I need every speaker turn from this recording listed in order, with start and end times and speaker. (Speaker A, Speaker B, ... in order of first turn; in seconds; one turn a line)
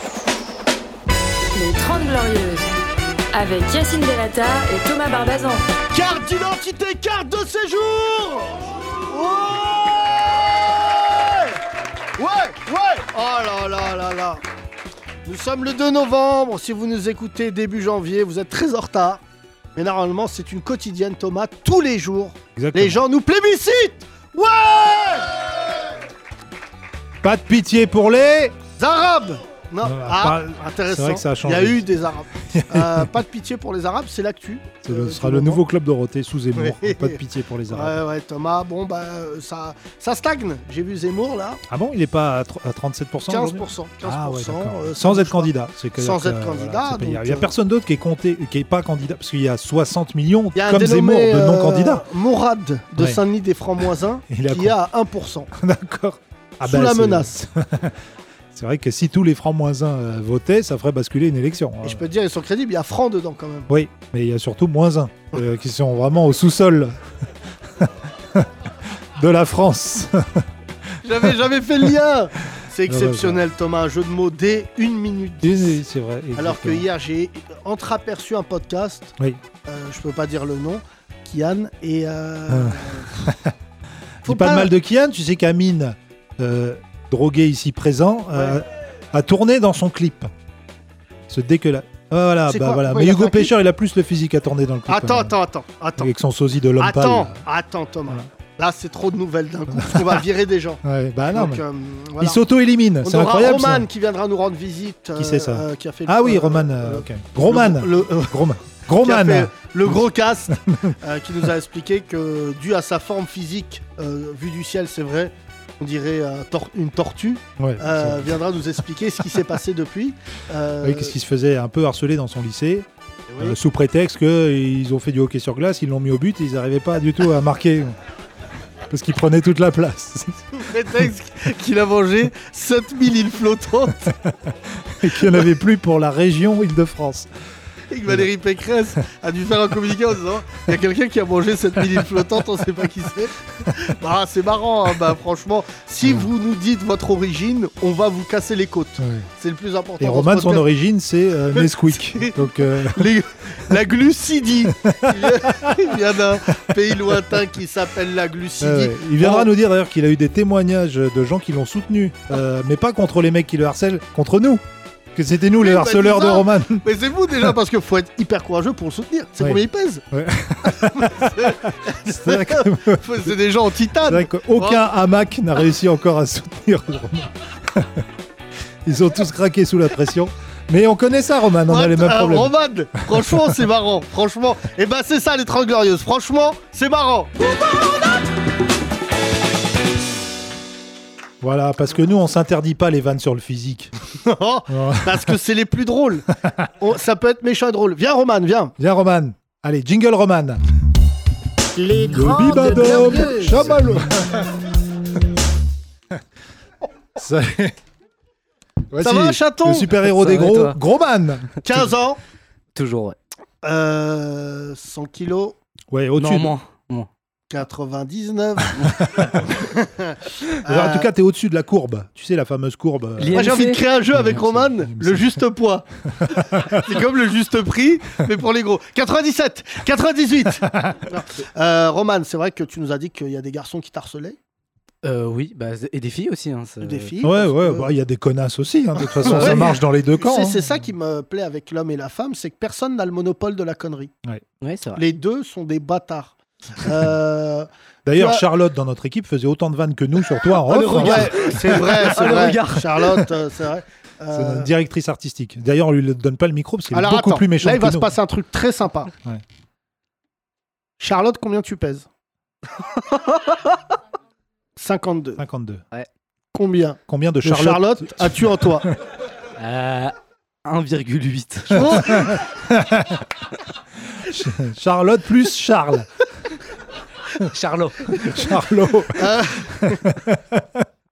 Speaker A: 1.6-2.7
Speaker A: 3.3-5.7
Speaker B: 5.9-11.6
Speaker B: 12.2-14.4
Speaker B: 15.2-19.2
Speaker B: 19.8-25.5
Speaker C: 22.6-23.0
Speaker C: 27.2-28.6
Speaker B: 28.8-35.6
Speaker C: 29.8-33.1
Speaker C: 34.8-38.0
Speaker B: 36.6-41.6
Speaker C: 41.7-52.1
Speaker B: 43.3-47.5
Speaker B: 50.5-55.5
Speaker C: 53.0-53.2
Speaker C: 54.3-54.8
Speaker C: 55.5-58.0
Speaker B: 56.6-57.3
Speaker C: 58.5-62.1
Speaker B: 61.8-63.7
Speaker C: 63.7-67.0
Speaker C: 67.8-68.5
Speaker C: 69.2-70.5
Speaker B: 71.0-75.8
Speaker C: 71.1-71.9
Speaker C: 72.8-73.4
Speaker C: 75.4-76.9
Speaker B: 76.3-79.2
Speaker B: 79.7-83.1
Speaker C: 82.5-83.5
Speaker C: 84.2-90.3
Speaker B: 84.2-84.7
Speaker B: 88.3-88.6
Speaker C: 91.3-95.3
Speaker B: 92.5-93.5
Speaker B: 94.9-96.1
Speaker C: 96.0-97.4
Speaker B: 96.8-102.4
Speaker C: 99.7-100.2
Speaker C: 100.8-101.7
Speaker C: 102.2-103.9
Speaker B: 103.0-108.4
Speaker C: 105.2-111.0
Speaker B: 109.0-121.2
Speaker C: 117.6-118.4
Speaker C: 120.8-122.9
Speaker B: 123.3-123.6
Speaker C: 123.4-128.0
Speaker C: 128.9-131.1
Speaker B: 130.5-134.2
Speaker C: 134.3-137.3
Speaker B: 137.9-150.7
Speaker C: 141.9-142.2
Speaker C: 146.0-146.3
Speaker C: 149.0-149.3
Speaker C: 150.0-153.2
Speaker B: 151.5-159.5
Speaker C: 154.7-155.8
Speaker C: 156.5-157.2
Speaker C: 158.6-166.9
Speaker B: 165.6-170.0
Speaker C: 169.4-173.3
Speaker B: 170.7-174.8
Speaker C: 174.0-178.1
Speaker C: 178.8-182.6
Speaker B: 181.7-187.8
Speaker C: 183.1-183.5
Speaker C: 191.4-193.9
Speaker B: 194.2-198.7
Speaker C: 194.7-195.3
Speaker C: 198.8-200.6
Speaker D: 201.8-203.8
Speaker C: 202.1-204.5
Speaker C: 207.2-207.8
Speaker C: 208.9-211.9
Speaker B: 209.0-209.9
Speaker E: 210.1-210.8
Speaker B: 211.6-212.2
Speaker E: 212.8-213.2
Speaker B: 213.6-215.6
Speaker C: 215.9-216.5
Speaker E: 216.2-217.1
Speaker B: 217.5-221.1
Speaker C: 218.8-219.3
Speaker C: 220.7-223.5
Speaker E: 223.2-223.8
Speaker B: 223.3-234.4
Speaker C: 224.1-225.4
Speaker C: 226.2-226.8
Speaker C: 230.6-231.0
Speaker E: 235.0-237.1
Speaker B: 236.8-237.9
Speaker C: 237.2-240.8
Speaker B: 239.2-244.1
Speaker E: 239.3-239.7
Speaker E: 244.6-245.0
Speaker B: 245.0-248.4
Speaker C: 248.1-252.1
Speaker E: 250.7-253.3
Speaker B: 251.0-254.7
Speaker C: 254.3-258.1
Speaker B: 256.9-259.1
Speaker B: 261.0-262.1
Speaker E: 263.1-263.7
Speaker B: 264.8-265.4
Speaker C: 265.4-265.8
Speaker B: 266.5-268.9
Speaker C: 267.1-269.0
Speaker E: 269.6-272.2
Speaker B: 271.7-272.4
Speaker C: 271.9-273.2
Speaker C: 274.1-276.1
Speaker E: 277.4-278.1
Speaker C: 278.1-280.9
Speaker B: 279.1-280.1